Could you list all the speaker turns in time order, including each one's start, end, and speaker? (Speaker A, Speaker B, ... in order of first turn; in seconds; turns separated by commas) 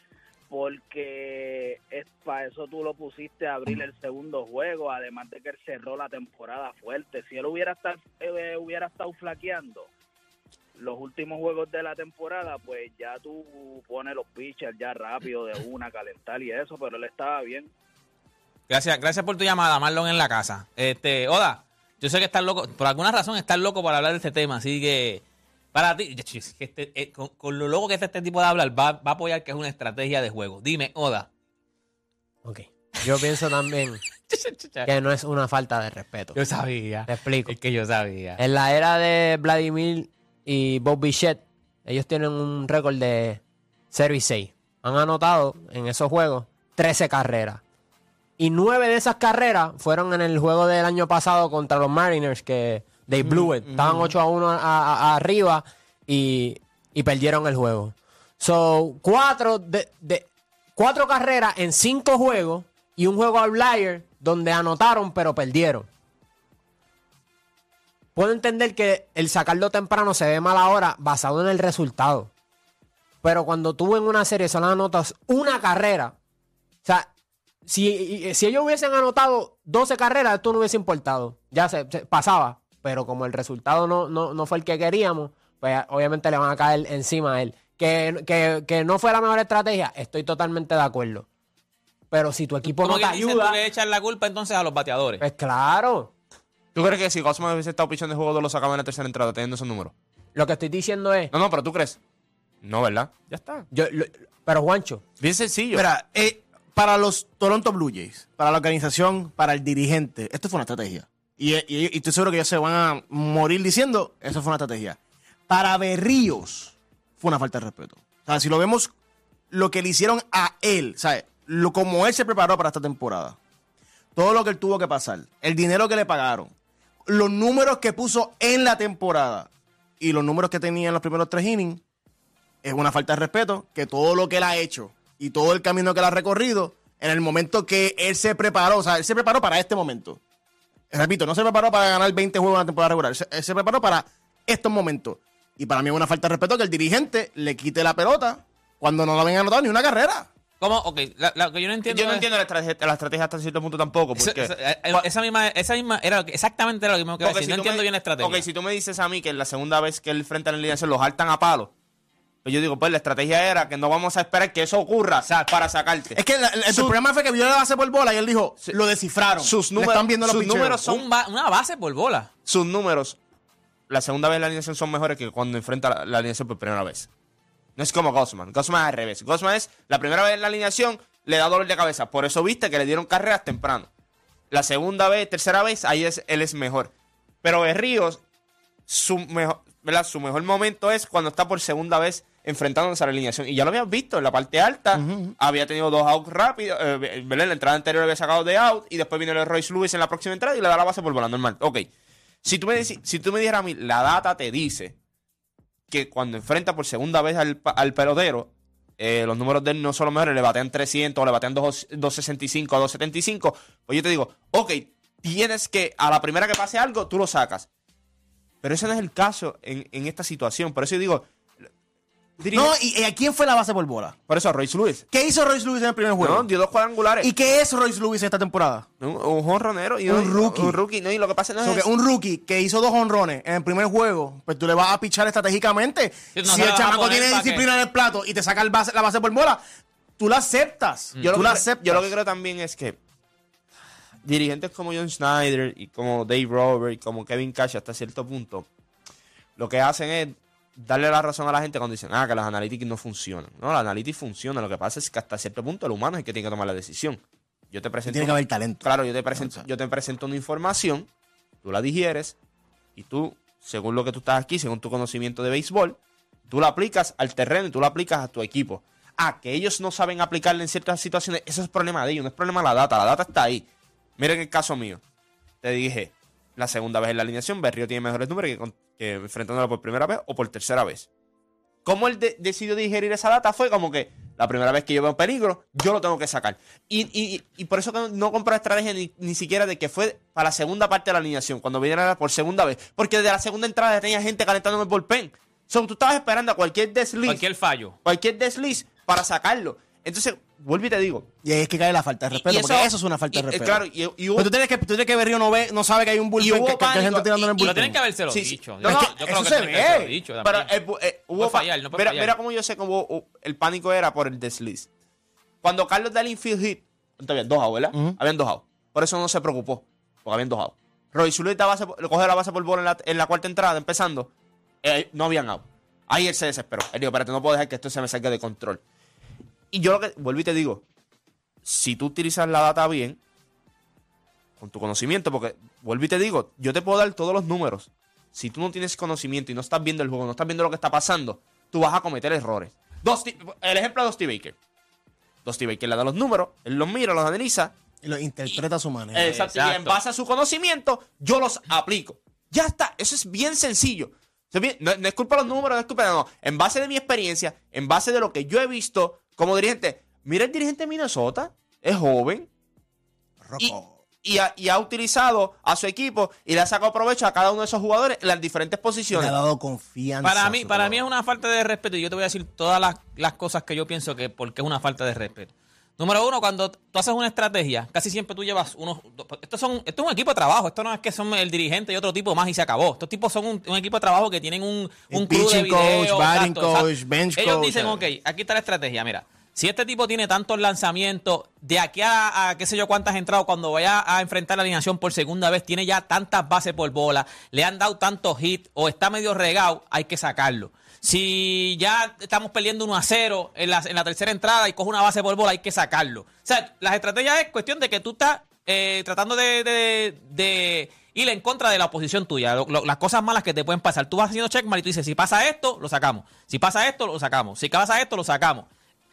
Speaker A: 0.5-9.9, Speaker A: 10.8-17.7, Speaker B: 18.7-31.3, Speaker C: 32.4-34.0, Speaker B: 34.3-34.9, Speaker C: 34.9-36.4, Speaker B: 36.4-38.4, Speaker C: 37.1-37.5, Speaker C: 38.4-43.4, Speaker C: 43.9-47.6, Speaker C: 48.4-65.9, Speaker D: 53.4-54.1, Speaker C: 68.2-72.3, Speaker C: 73.2-76.2, Speaker C: 76.8-77.1, Speaker C: 77.7-91.3, Speaker C: 92.1-93.6, Speaker B: 92.6-95.2, Speaker C: 95.2-96.1, Speaker E: 96.7-99.9, Speaker C: 100.3-101.3, Speaker E: 101.3-102.0, Speaker E: 102.6-103.7, Speaker C: 103.7-105.0, Speaker E: 105.2-105.8, Speaker D: 105.7-115.0, Speaker D: 115.5-118.9, Speaker D: 119.5-123.4, Speaker D: 124.2-126.5, Speaker D: 127.1-129.5, Speaker D: 130.0-131.8, Speaker D: 132.6-140.2, Speaker D: 140.9-150.3, Speaker B: 150.6-152.3, Speaker E: 151.9-155.1, Speaker B: 154.2-158.4, Speaker E: 157.2-161.7, Speaker E: 162.4-167.0, Speaker D: 166.2-170.8, Speaker E: 169.4-171.0, Speaker B: 170.9-172.3, Speaker E: 172.5-173.2, Speaker E: 173.9-177.1, Speaker E: 177.8-183.9, Speaker E: 184.5-186.9, Speaker E: 187.4-188.2, Speaker E: 188.9-201.9, Speaker D: 194.9-195.3, Speaker E: 202.4-205.0, Speaker E: 205.9-217.7, Speaker E: 218.6-221.3, Speaker E: 222.4-222.7, Speaker D: 222.5-224.2, Speaker E: 224.3-225.1, Speaker D: 225.1-226.5, Speaker E: 226.2-227.3, Speaker D: 227.2-228.9, Speaker E: 229.0-231.9, Speaker D: 230.1-230.8, Speaker D: 231.6-239.6, Speaker B: 236.3-237.7, Speaker D: 240.2-242.1, Speaker E: 241.2-243.0, Speaker E: 244.2-248.7, Speaker E: 249.6-257.2, Speaker E: 257.7-261.1, Speaker D: 258.1-259.6, Speaker E: 261.6-262.4, Speaker E: 263.0-266.0, Speaker E: 266.5-273.6, Speaker E: 274.2-275.0, Speaker E: 275.6-281.1, Speaker E: 281.8-297.4, Speaker B: 297.3-298.0, Speaker E: 298.0-301.3, Speaker D: 301.4-303.8, Speaker E: 302.3-304.5, Speaker D: 304.4-308.0, Speaker E: 306.4-307.4, Speaker B: 307.6-310.7, Speaker E: 308.3-309.1, Speaker D: 308.8-310.1, Speaker E: 310.4-314.9, Speaker B: 311.4-312.3, Speaker E: 315.6-324.3, Speaker D: 317.9-318.2, Speaker E: 324.8-328.8, Speaker E: 329.7-330.8, Speaker E: 331.6-333.2, Speaker E: 334.6-344.6, Speaker E: 345.4-347.7, Speaker D: 348.0-349.4, Speaker E: 349.1-362.5, Speaker B: 349.2-350.0, Speaker D: 363.4-364.0, Speaker E: 363.6-369.4, Speaker D: 369.1-371.1, Speaker B: 370.2-418.7, Speaker D: 385.1-388.1